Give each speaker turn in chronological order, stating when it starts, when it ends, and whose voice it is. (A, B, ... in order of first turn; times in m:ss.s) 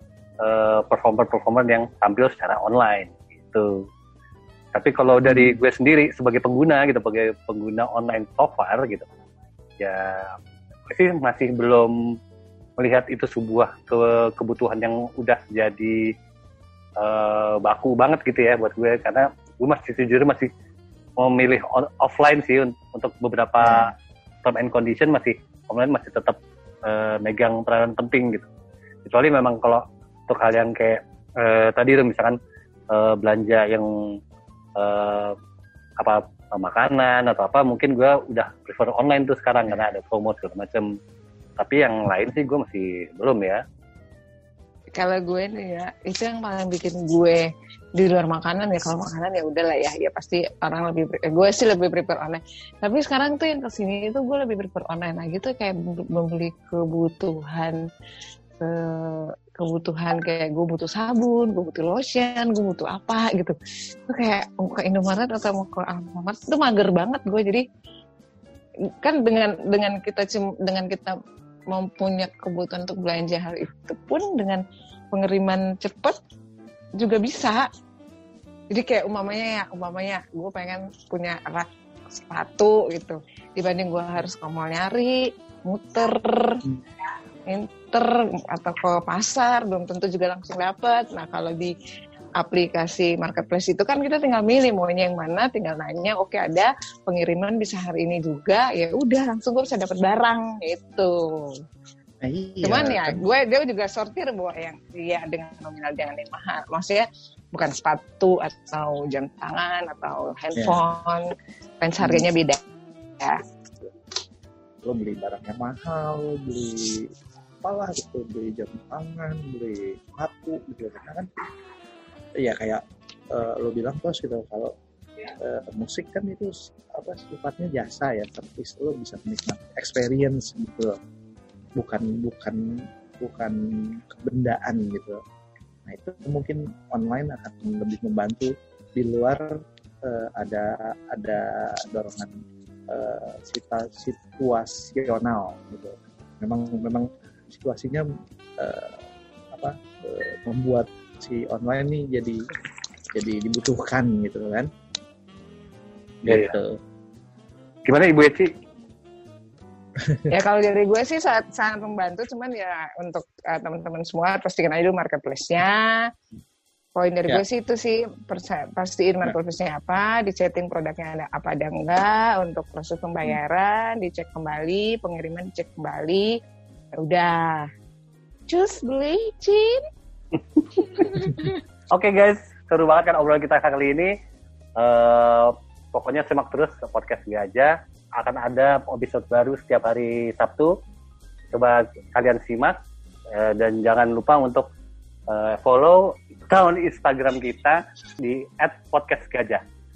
0:00.4-0:03.8 A
0:04.7-0:09.1 A
0:05.3-0:05.6 B
0:09.8-0:10.4 A
0:10.9-0:12.2 A
0:12.8-0:16.1 A
0:17.0-0:20.5 A
0:21.2-0:23.9 A
0:23.6-0:23.9 B
0:24.4-0:28.5 A
0:29.0-0:32.4 A
0:32.9-0:34.2 A
0:34.8-0:35.4 A
0:36.0-0:40.9 A
0:41.6-0:43.6 A
0:45.0-0:47.4 C
0:48.0-0:57.8 C
0:58.6-1:03.6 C
1:04.1-1:07.6 C
1:09.0-1:11.2 C
1:11.7-1:16.2 C
1:17.0-1:17.7 C
1:18.7-1:26.6 C
1:27.5-1:31.7 C
1:32.4-1:41.6 C
1:42.2-1:43.2 B
1:42.6-1:52.6 C
1:54.8-1:57.1 B
1:57.6-2:01.3 B
2:02.4-2:04.7 B
2:05.4-2:11.0 B
2:11.8-2:15.2 B
2:15.9-2:22.3 B
2:22.9-2:28.1 B
2:28.6-2:29.0 B
2:29.5-2:32.4 B
2:33.2-2:34.7 B
2:36.2-2:36.8 B
2:36.3-2:36.6 A
2:37.8-2:38.5 A
2:40.3-2:46.1 C
2:47.0-2:56.4 C
2:57.0-2:57.7 C
2:58.5-2:59.8 C
3:00.9-3:01.5 C
3:01.0-3:01.3 A
3:01.9-3:04.1 A
3:04.8-3:10.8 A
3:11.5-3:12.8 A
3:13.4-3:14.7 A
3:15.3-3:19.6 A